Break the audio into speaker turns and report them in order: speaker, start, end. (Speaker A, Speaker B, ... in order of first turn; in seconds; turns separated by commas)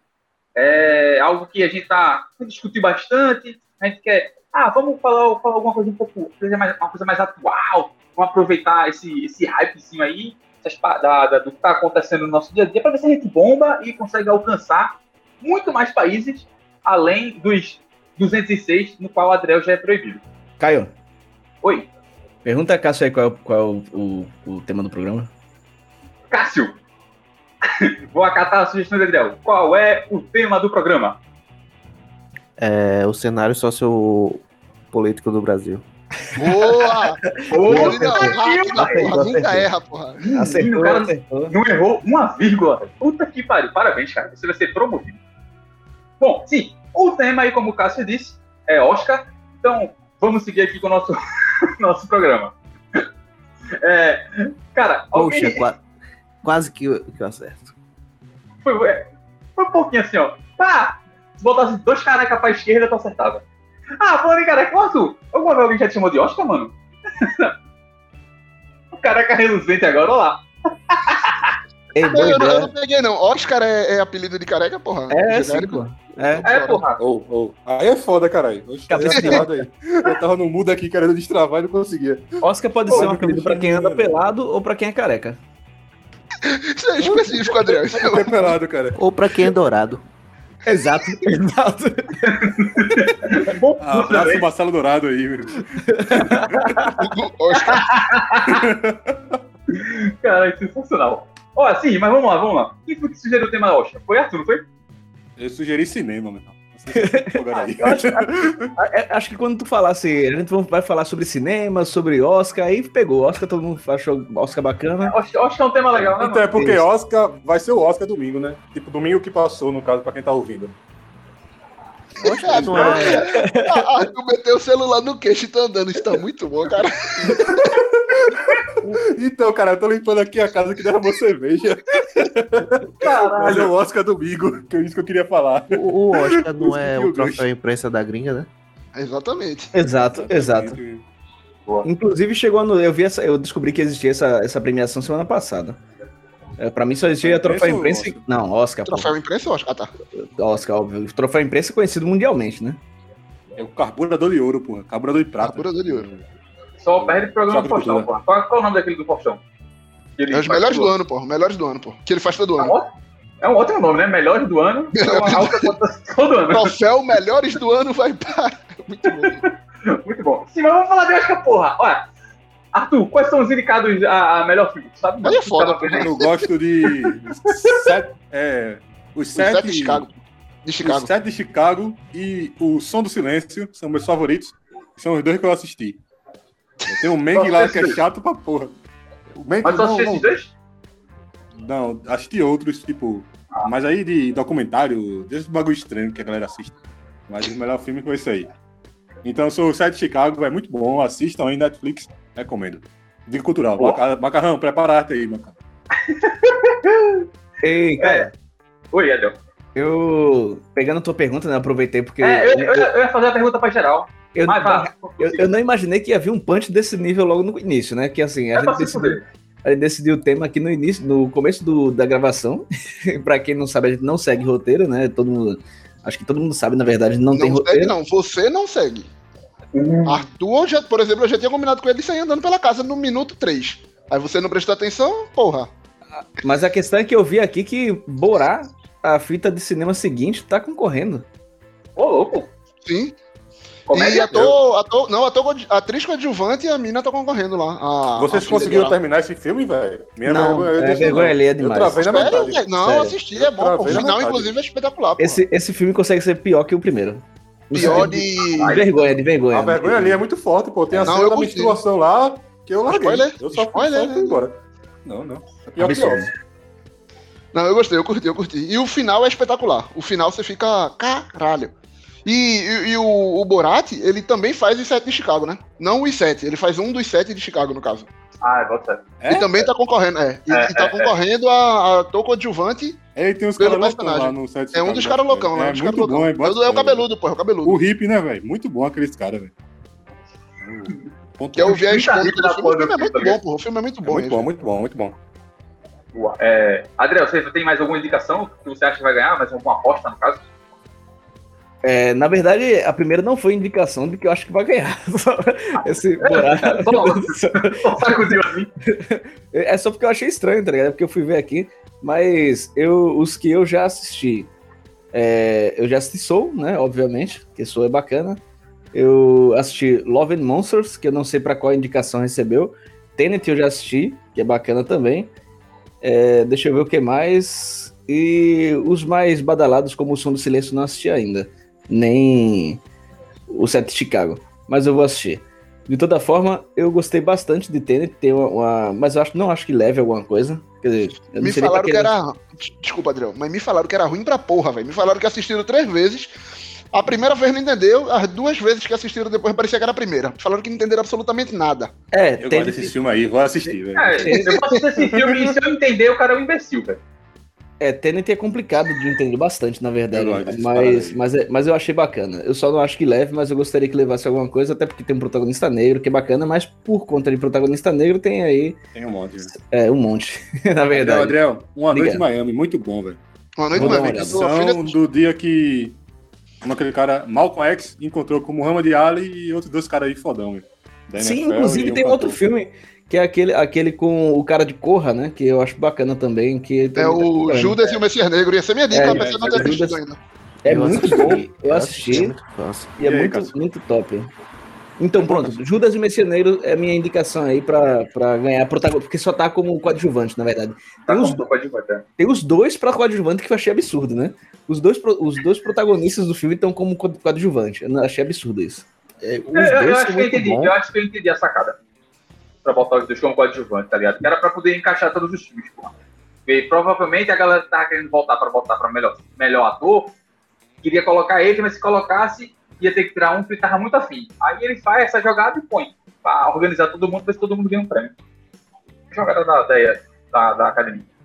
Speaker A: 0.6-20.2, Speaker B: 20.6-20.9, Speaker B: 22.4-25.3, Speaker A: 26.3-26.7, Speaker A: 27.6-31.2, Speaker C: 32.6-35.8, Speaker D: 36.3-40.2, Speaker B: 37.3-39.7, Speaker A: 37.5-39.3, Speaker A: 40.2-45.2, Speaker B: 40.3-41.5, Speaker A: 46.2-53.0, Speaker A: 53.8-55.6, Speaker C: 55.1-55.8, Speaker C: 56.4-57.7, Speaker A: 58.6-59.0, Speaker A: 59.6-63.4, Speaker A: 64.0-67.5, Speaker A: 69.0-71.5, Speaker B: 71.9-72.7, Speaker D: 72.0-75.8, Speaker B: 75.1-76.8, Speaker D: 76.3-76.8, Speaker A: 76.4-77.0, Speaker E: 77.0-82.3, Speaker B: 78.9-79.7, Speaker D: 79.1-79.4, Speaker B: 82.4-85.4, Speaker E: 82.9-84.3, Speaker D: 86.4-88.5, Speaker E: 87.9-89.0, Speaker C: 89.0-90.0, Speaker B: 90.6-92.5, Speaker A: 92.2-94.4, Speaker E: 93.8-97.0, Speaker B: 95.8-96.9, Speaker D: 97.0-97.9, Speaker A: 97.6-98.7, Speaker E: 98.5-99.4, Speaker A: 99.7-104.6, Speaker E: 105.4-108.7, Speaker B: 106.9-107.3, Speaker B: 107.8-115.1, Speaker A: 115.0-116.5, Speaker E: 116.0-120.8, Speaker B: 116.5-116.8, Speaker E: 122.2-123.2, Speaker C: 122.2-123.3, Speaker D: 122.3-127.7, Speaker B: 122.8-123.8, Speaker E: 127.7-137.4, Speaker A: 133.0-133.7, Speaker C: 135.7-138.5, Speaker D: 138.9-139.7, Speaker B: 139.7-140.8, Speaker E: 140.1-141.0, Speaker B: 141.8-145.8, Speaker B: 146.6-149.1, Speaker E: 147.2-148.2, Speaker D: 148.8-149.9, Speaker B: 150.2-152.8, Speaker E: 153.6-156.2, Speaker D: 155.4-156.1, Speaker A: 156.8-159.4, Speaker E: 157.0-158.1, Speaker A: 160.2-160.9, Speaker D: 160.3-162.7, Speaker A: 162.6-162.9, Speaker A: 163.4-166.7, Speaker D: 164.9-165.7, Speaker D: 166.5-169.4, Speaker A: 169.3-172.0, Speaker A: 172.7-176.1, Speaker D: 175.2-176.5, Speaker E: 175.9-180.1, Speaker A: 177.5-177.8, Speaker D: 179.3-180.1, Speaker D: 180.6-181.1, Speaker E: 180.8-186.0, Speaker E: 186.9-188.7, Speaker A: 187.3-188.0, Speaker E: 189.4-190.3, Speaker A: 189.6-190.5, Speaker E: 191.6-196.8, Speaker E: 197.3-198.5, Speaker E: 199.2-205.5, Speaker A: 206.0-207.3, Speaker B: 207.6-208.3, Speaker A: 208.0-208.3, Speaker A: 208.9-209.3, Speaker B: 209.8-212.9, Speaker A: 212.2-215.5, Speaker B: 214.3-227.9, Speaker A: 218.5-219.2, Speaker D: 227.3-229.1, Speaker A: 229.7-230.2, Speaker D: 230.1-235.7, Speaker B: 236.1-241.2, Speaker A: 242.0-242.5, Speaker D: 242.8-243.1, Speaker A: 243.9-244.5, Speaker D: 243.9-249.0, Speaker E: 248.2-252.7, Speaker B: 250.2-253.1, Speaker D: 252.0-255.4, Speaker E: 253.2-254.5, Speaker B: 255.2-260.2, Speaker D: 257.7-258.8, Speaker A: 258.6-258.8, Speaker E: 259.5-266.3, Speaker D: 261.1-261.8, Speaker D: 262.9-264.4, Speaker B: 265.8-266.3, Speaker D: 267.5-271.7, Speaker D: 272.2-278.1, Speaker A: 278.4-279.1, Speaker E: 279.2-279.7, Speaker D: 279.3-283.0, Speaker A: 280.5-281.1, Speaker E: 283.1-287.1, Speaker D: 283.6-287.8, Speaker E: 287.6-289.5, Speaker E: 290.6-291.8, Speaker D: 291.5-294.5, Speaker A: 291.6-293.4, Speaker E: 294.0-295.2, Speaker A: 296.1-300.4, Speaker B: 301.8-307.8, Speaker A: 305.8-308.7, Speaker B: 308.9-314.5, Speaker B: 315.1-318.4, Speaker B: 318.9-325.3, Speaker B: 326.0-332.8, Speaker B: 333.5-342.1, Speaker D: 341.4-346.3, Speaker D: 346.9-351.9, Speaker B: 352.1-352.9, Speaker E: 352.4-354.4, Speaker A: 353.9-357.0, Speaker B: 354.2-354.8, Speaker E: 355.1-355.4, Speaker B: 357.8-368.8, Speaker E: 360.1-361.2, Speaker E: 368.9-369.5, Speaker B: 369.6-371.4, Speaker E: 370.9-373.2, Speaker B: 371.9-372.2, Speaker D: 373.6-375.0, Speaker B: 373.7-374.4, Speaker E: 373.7-375.9, Speaker E: 376.6-382.4, Speaker B: 381.2-388.0, Speaker D: 386.9-390.2, Speaker B: 388.9-390.0, Speaker E: 389.0-389.8, Speaker B: 390.6-392.3, Speaker C: 390.6-392.9, Speaker B: 393.0-394.3, Speaker E: 393.0-393.5, Speaker B: 395.0-401.4, Speaker E: 395.2-395.5, Speaker A: 401.1-402.0, Speaker B: 402.2-408.8, Speaker C: 409.2-410.7, Speaker A: 409.5-411.8, Speaker A: 412.6-415.9, Speaker A: 416.5-420.1, Speaker A: 420.8-428.1, Speaker A: 429.1-431.1